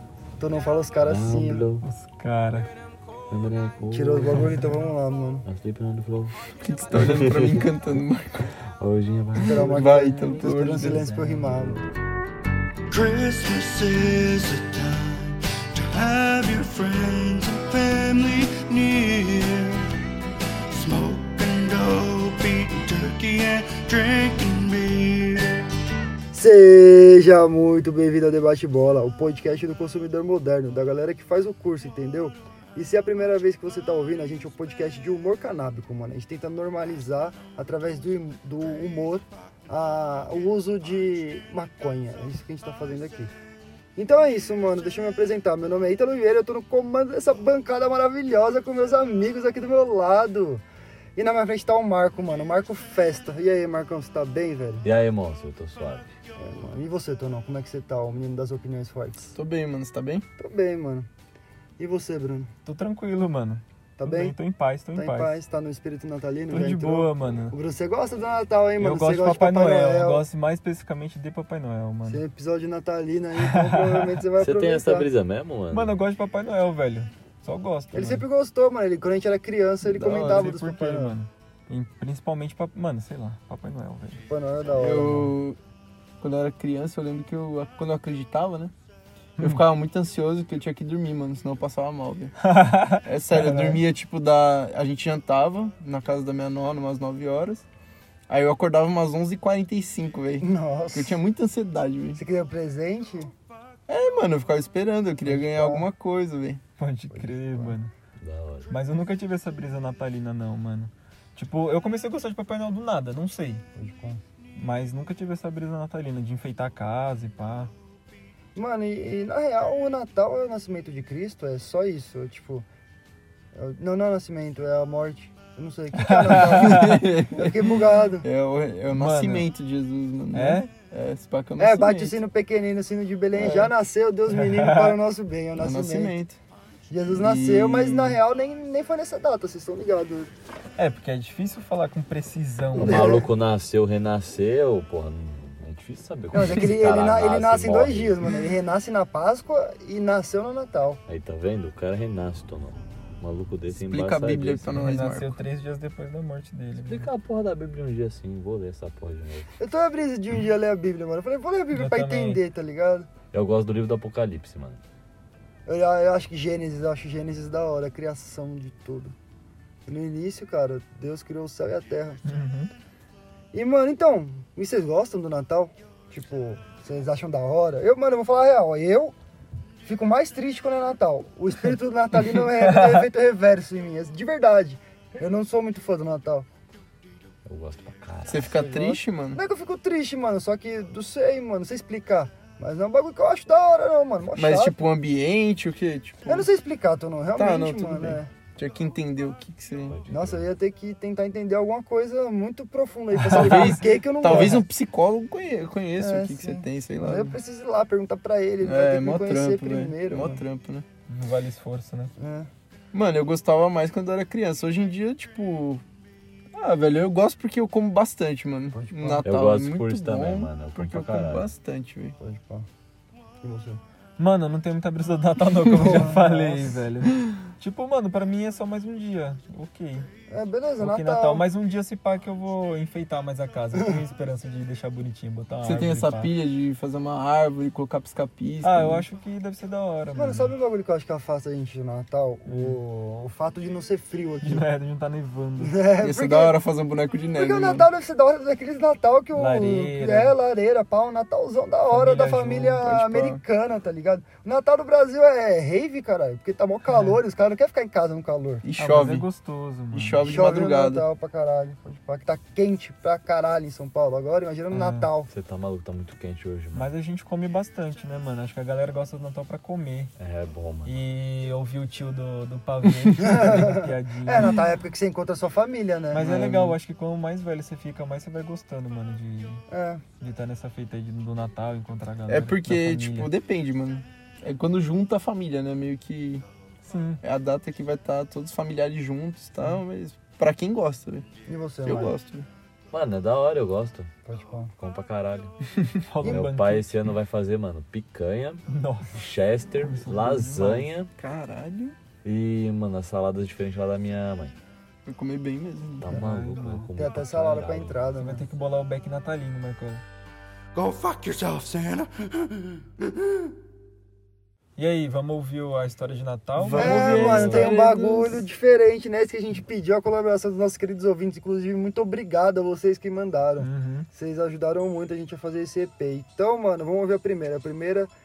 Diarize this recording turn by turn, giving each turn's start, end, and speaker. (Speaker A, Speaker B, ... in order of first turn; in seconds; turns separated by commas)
Speaker A: 0.4-1.6, Speaker B: 1.0-1.9, Speaker C: 1.8-2.7, Speaker B: 3.3-4.5, Speaker A: 3.9-5.5, Speaker C: 4.4-4.8, Speaker B: 5.5-7.7, Speaker D: 6.6-8.4, Speaker B: 8.8-11.8, Speaker A: 9.4-11.8, Speaker D: 9.6-11.1, Speaker E: 12.9-19.8, Speaker E: 20.7-25.5, Speaker A: 26.3-43.3, Speaker A: 44.0-50.6, Speaker A: 51.1-54.8, Speaker B: 54.8-56.1, Speaker A: 56.4-59.3, Speaker D: 59.3-60.2, Speaker A: 60.4-61.1, Speaker A: 61.8-62.5, Speaker C: 62.6-65.3, Speaker A: 64.0-64.3, Speaker A: 64.9-70.2, Speaker C: 66.5-67.5, Speaker C: 68.8-72.2, Speaker A: 72.0-75.1, Speaker C: 73.4-74.2, Speaker B: 74.4-75.9, Speaker C: 75.7-78.3, Speaker A: 77.9-81.1, Speaker C: 79.8-84.2, Speaker A: 84.2-85.3, Speaker D: 84.7-85.6, Speaker D: 86.2-88.7, Speaker C: 89.4-89.6, Speaker D: 89.4-92.3, Speaker C: 92.4-93.8, Speaker D: 93.0-97.6, Speaker D: 98.3-102.2, Speaker A: 100.4-101.2, Speaker A: 102.1-103.3, Speaker D: 103.9-106.6, Speaker A: 105.2-105.8, Speaker C: 106.8-107.9, Speaker A: 107.1-107.8, Speaker B: 108.2-108.7, Speaker C: 108.7-113.6, Speaker A: 113.8-114.2, Speaker C: 114.6-117.7, Speaker A: 118.5-122.6, Speaker A: 123.5-128.2, Speaker C: 126.0-127.1, Speaker D: 126.6-132.2, Speaker C: 128.9-129.5, Speaker C: 130.3-130.7, Speaker A: 131.6-136.1, Speaker D: 133.3-133.7, Speaker C: 134.3-135.0, Speaker D: 135.6-136.4, Speaker A: 136.9-140.3, Speaker D: 137.1-138.2, Speaker C: 140.8-143.2, Speaker A: 142.8-143.3, Speaker B: 142.8-148.3, Speaker A: 146.3-151.0, Speaker B: 151.1-154.9, Speaker D: 153.8-155.4, Speaker C: 154.7-157.1, Speaker B: 156.8-159.5, Speaker A: 159.6-163.1, Speaker C: 161.7-162.4, Speaker B: 163.3-164.8, Speaker A: 165.7-169.1, Speaker A: 169.9-172.2, Speaker C: 172.2-172.7, Speaker A: 173.5-179.1, Speaker A: 179.8-186.5, Speaker C: 182.3-183.0, Speaker B: 187.4-188.6, Speaker D: 188.3-189.4, Speaker A: 188.5-194.7, Speaker D: 194.3-196.5, Speaker A: 196.2-198.3, Speaker D: 197.3-200.0, Speaker B: 199.9-200.5, Speaker A: 200.1-204.6, Speaker C: 203.1-204.6, Speaker D: 203.3-207.4, Speaker A: 206.0-210.4, Speaker D: 208.6-210.8, Speaker C: 211.1-212.1, Speaker A: 212.2-212.5, Speaker D: 212.9-215.8, Speaker D: 216.5-222.1, Speaker A: 218.7-219.3, Speaker B: 219.2-221.5, Speaker A: 222.2-222.7, Speaker A: 223.4-223.8, Speaker C: 224.2-230.1, Speaker A: 225.8-226.7, Speaker A: 230.3-231.4, Speaker C: 230.8-236.3, Speaker D: 235.6-239.1, Speaker C: 238.6-240.5, Speaker A: 240.1-244.7, Speaker C: 242.4-242.8, Speaker C: 244.4-245.8, Speaker A: 245.6-246.6, Speaker D: 246.0-247.9, Speaker A: 247.3-258.6, Speaker C: 249.3-250.3, Speaker C: 251.9-253.4, Speaker C: 256.9-257.2, Speaker D: 258.6-259.3, Speaker C: 258.8-260.4, Speaker D: 259.9-261.1, Speaker A: 260.2-265.3, Speaker C: 264.7-265.1, Speaker B: 265.3-266.9, Speaker C: 266.7-270.1, Speaker B: 270.2-270.9, Speaker C: 270.9-274.6, Speaker A: 273.2-276.5, Speaker C: 276.1-279.6, Speaker D: 276.2-276.7, Speaker A: 279.7-280.0, Speaker C: 280.2-283.3, Speaker D: 282.3-286.4, Speaker C: 286.9-287.2, Speaker D: 287.2-291.2, Speaker A: 291.4-292.1, Speaker D: 291.8-292.5, Speaker B: 292.9-294.1, Speaker A: 294.2-294.7, Speaker B: 294.8-295.5, Speaker C: 296.1-296.9, Speaker B: 296.2-301.1, Speaker C: 298.7-299.2, Speaker C: 299.8-300.9, Speaker D: 301.1-301.9, Speaker B: 302.2-304.5, Speaker D: 305.0-306.1, Speaker B: 306.0-308.1, Speaker C: 306.1-306.9, Speaker A: 306.9-308.4, Speaker C: 308.2-310.0, Speaker E: 310.7-312.7, Speaker C: 314.8-317.8, Speaker D: 316.6-318.4, Speaker A: 316.7-328.1, Speaker C: 323.6-324.1